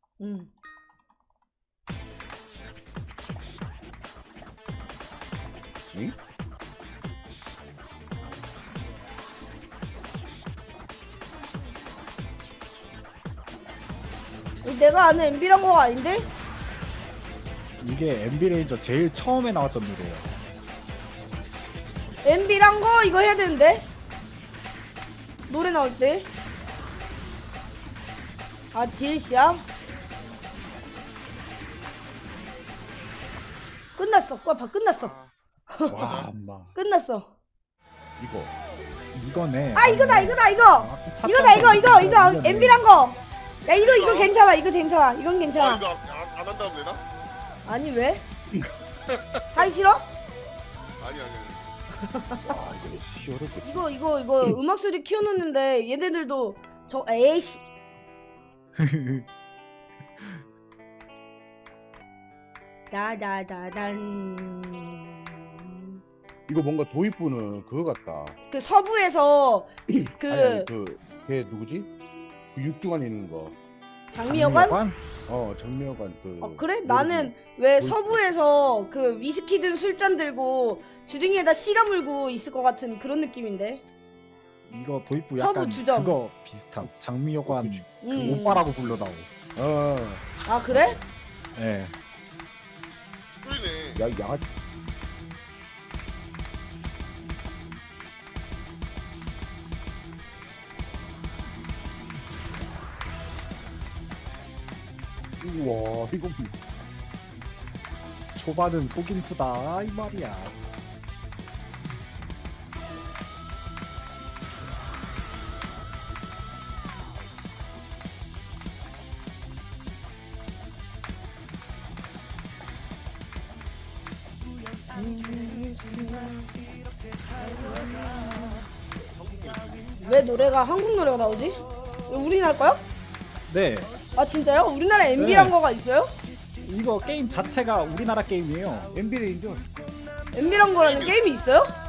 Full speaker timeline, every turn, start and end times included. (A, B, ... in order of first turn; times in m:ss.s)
0:00.2-0:00.5 A
0:14.6-0:16.3 A
0:17.8-0:20.3 B
0:22.2-0:23.8 A
0:25.5-0:26.3 A
0:28.7-0:29.6 A
0:34.0-0:35.1 A
0:35.0-0:35.3 C
0:35.7-0:36.1 A
0:35.8-0:36.3 C
0:35.9-0:36.7 B
0:36.7-0:37.3 A
0:38.2-0:38.5 D
0:39.1-0:42.9 B
0:39.7-0:45.8 A
0:43.7-0:44.4 C
0:45.5-0:47.0 C
0:47.6-0:48.2 A
0:49.1-0:49.7 C
0:49.5-0:50.1 A
0:51.0-0:51.6 C
0:52.1-0:52.6 A
0:52.4-0:53.9 D
0:53.6-0:57.6 A
0:58.8-0:59.2 B
1:02.9-1:06.0 A
1:06.5-1:08.4 D
1:08.5-1:10.7 A
1:09.9-1:11.9 D
1:12.5-1:13.6 D
1:14.1-1:14.8 A
1:14.2-1:15.0 B
1:15.3-1:18.3 D
1:16.4-1:23.8 A
1:24.7-1:29.3 B
1:25.3-1:26.2 A
1:27.4-1:28.4 D
1:28.0-1:28.6 A
1:29.5-1:30.2 D
1:30.4-1:31.0 A
1:30.7-1:31.0 B
1:31.6-1:31.9 B
1:33.4-1:34.0 C
1:34.0-1:34.4 D
1:45.4-1:46.5 D
1:48.3-1:50.5 B
2:04.9-2:06.4 A
2:07.7-2:08.5 A
2:09.0-2:09.9 C
2:10.0-2:12.8 A
2:13.5-2:13.9 B
2:14.1-2:16.1 A
2:15.2-2:15.6 B
2:16.6-2:18.9 B
2:18.9-2:19.6 D
2:20.3-2:21.8 A
2:20.8-2:21.2 C